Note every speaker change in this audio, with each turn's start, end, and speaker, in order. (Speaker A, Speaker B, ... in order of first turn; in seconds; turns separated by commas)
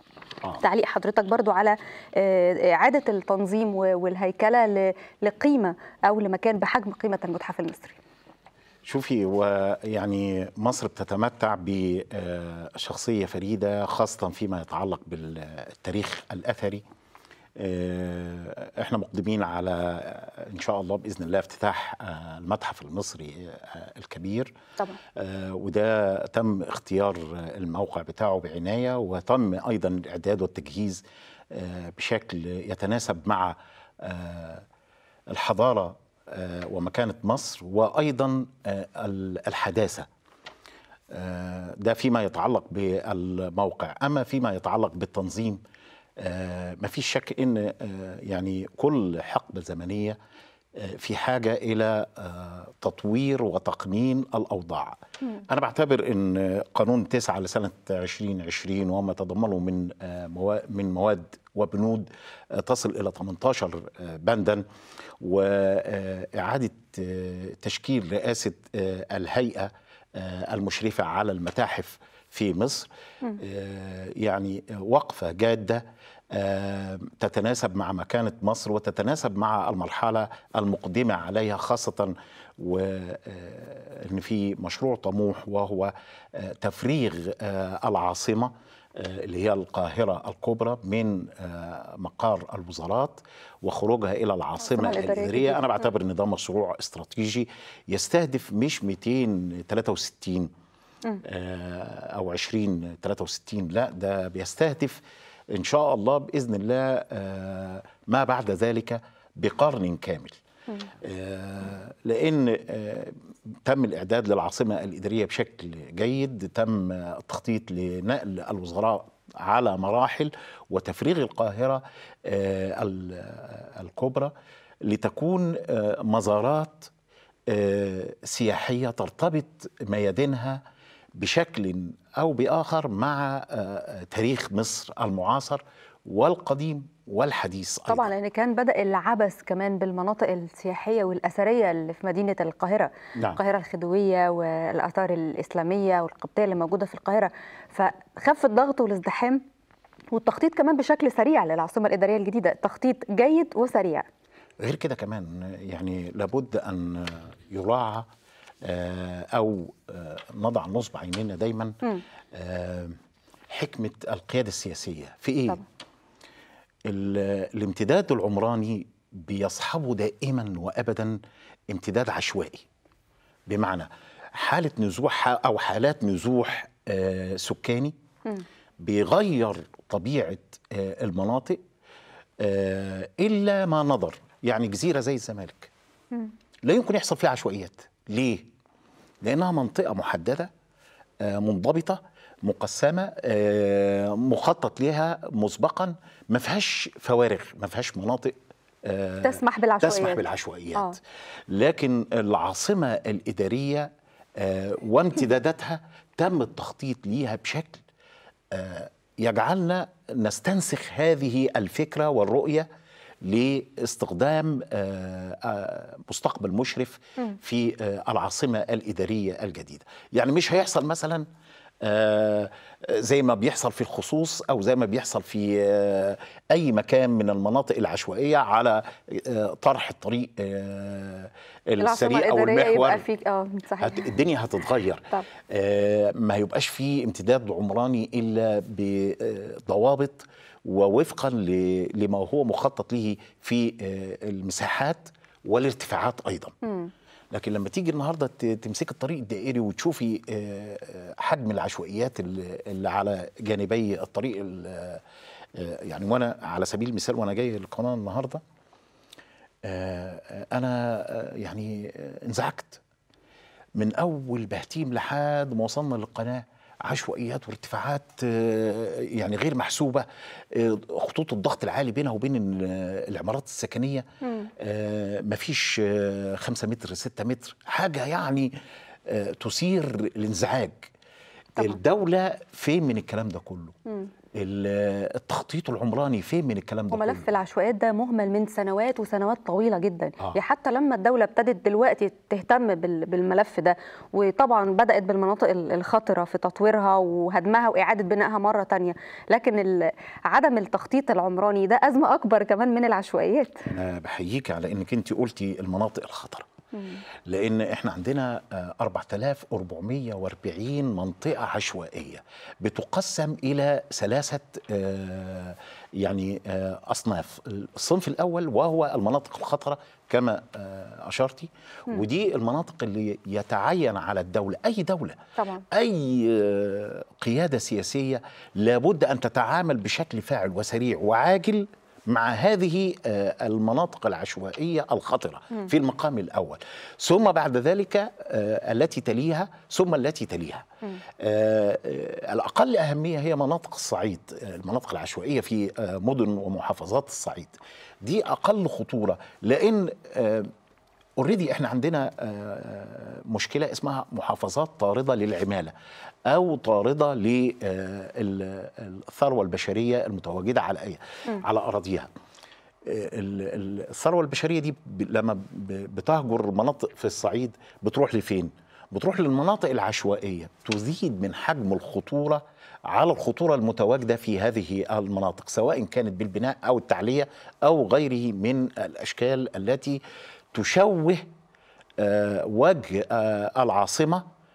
Speaker A: 0.6-8.0, Speaker B: 8.8-16.8, Speaker B: 17.6-24.5, Speaker B: 25.1-34.6, Speaker B: 35.3-40.1, Speaker B: 41.1-45.6, Speaker B: 46.2-50.2, Speaker B: 50.8-64.6, Speaker B: 65.2-100.5, Speaker A: 94.6-95.6, Speaker B: 101.2-110.4, Speaker B: 111.0-124.3, Speaker B: 124.8-126.9, Speaker B: 127.5-130.6, Speaker B: 131.2-138.1, Speaker A: 137.9-149.4, Speaker A: 150.1-154.1, Speaker B: 154.6-158.1, Speaker B: 158.6-161.8, Speaker B: 162.3-162.9, Speaker B: 163.5-165.6, Speaker B: 166.9-171.2, Speaker B: 171.7-172.6, Speaker B: 173.5-177.9, Speaker B: 178.8-181.6, Speaker B: 182.4-185.7, Speaker B: 186.6-188.4, Speaker B: 189.2-190.5, Speaker B: 191.2-207.8, Speaker A: 199.2-200.2, Speaker B: 208.5-212.7, Speaker B: 213.2-221.2, Speaker B: 221.8-233.0, Speaker A: 231.8-234.0, Speaker B: 233.8-246.5, Speaker A: 246.7-246.9, Speaker B: 247.3-255.0, Speaker B: 255.5-258.4, Speaker B: 259.6-262.8, Speaker B: 263.8-274.0, Speaker A: 274.2-274.5, Speaker B: 274.6-278.5, Speaker B: 279.1-280.9, Speaker B: 281.6-283.8, Speaker B: 284.3-287.3, Speaker A: 286.9-303.6, Speaker B: 303.7-306.4, Speaker A: 306.7-307.0, Speaker B: 307.2-340.6, Speaker A: 325.4-325.6, Speaker B: 341.2-350.5, Speaker B: 351.2-355.7, Speaker B: 356.3-362.1, Speaker B: 362.8-380.0, Speaker B: 380.5-381.2, Speaker B: 382.0-384.2